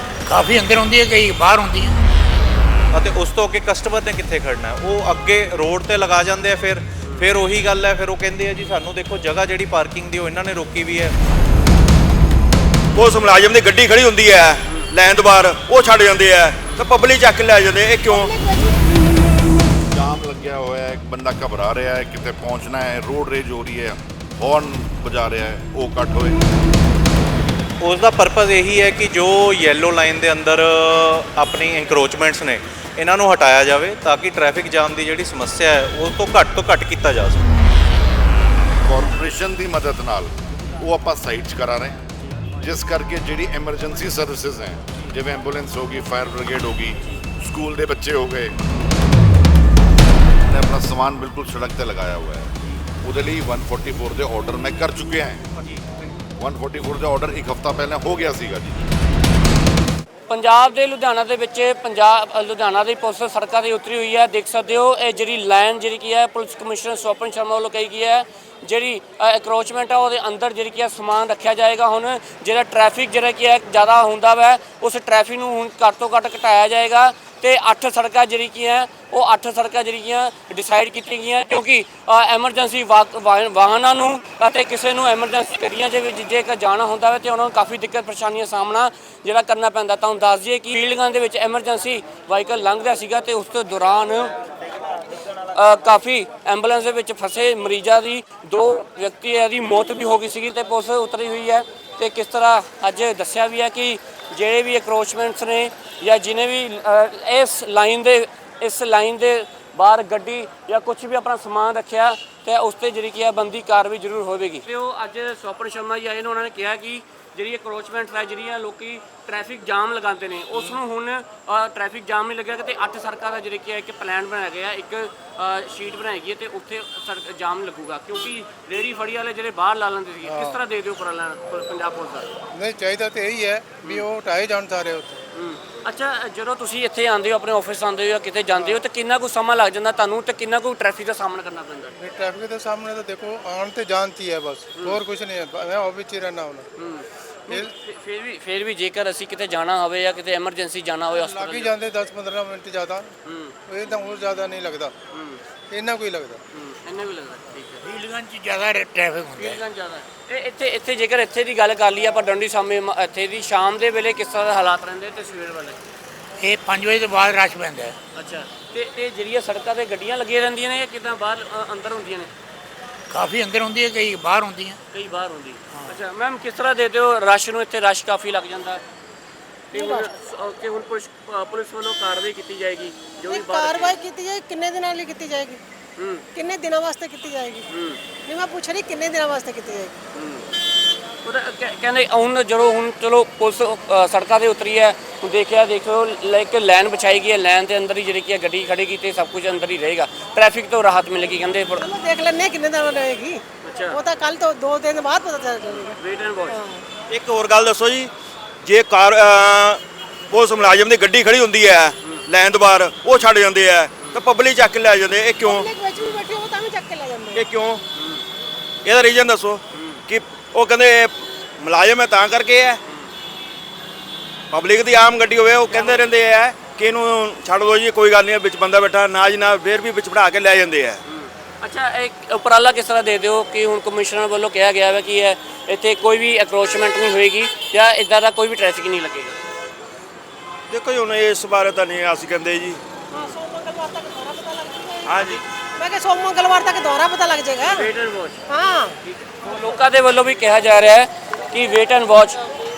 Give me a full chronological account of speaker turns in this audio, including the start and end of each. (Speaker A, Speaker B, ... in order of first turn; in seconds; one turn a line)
Speaker A: 0.3-2.0
Speaker B: 2.9-11.1
Speaker C: 12.9-18.3
Speaker D: 18.0-18.8
Speaker E: 19.9-26.4
Speaker B: 27.8-37.5
Speaker E: 38.8-42.0
Speaker E: 42.6-48.6
Speaker E: 50.5-52.5
Speaker E: 53.0-55.4
Speaker E: 56.4-58.8
Speaker F: 60.3-94.3
Speaker F: 95.4-132.3
Speaker G: 130.2-130.6
Speaker G: 132.5-135.2
Speaker F: 133.8-134.1
Speaker F: 135.4-142.0
Speaker G: 142.0-146.7
Speaker F: 146.8-151.8
Speaker G: 151.1-153.1
Speaker F: 153.3-153.6
Speaker G: 153.7-154.9
Speaker F: 155.1-155.4
Speaker G: 155.7-156.4
Speaker F: 156.5-157.9
Speaker A: 157.9-159.5
Speaker F: 159.4-165.8
Speaker A: 166.4-168.0
Speaker F: 168.2-172.3
Speaker A: 173.1-174.8
Speaker F: 174.9-178.8
Speaker F: 179.7-184.0
Speaker D: 179.7-180.1
Speaker D: 183.3-185.6
Speaker F: 186.0-186.3
Speaker D: 186.3-187.7
Speaker F: 187.7-188.0
Speaker D: 188.3-190.0
Speaker F: 190.1-190.5
Speaker F: 191.2-201.9
Speaker D: 201.8-205.9
Speaker F: 203.6-204.0
Speaker F: 205.7-206.6
Speaker D: 206.5-206.8
Speaker C: 207.1-215.7
Speaker F: 212.0-212.3
Speaker D: 215.4-217.4
Speaker C: 217.4-217.8
Speaker F: 217.9-218.2
Speaker C: 218.8-222.8
Speaker F: 219.7-220.1
Speaker C: 224.5-231.0
Speaker D: 225.7-226.1
Speaker F: 231.1-239.4
Speaker C: 240.7-242.8
Speaker F: 243.1-243.4
Speaker D: 243.2-247.9
Speaker C: 245.1-245.4
Speaker F: 247.7-248.4
Speaker D: 248.5-249.0
Speaker F: 249.1-252.4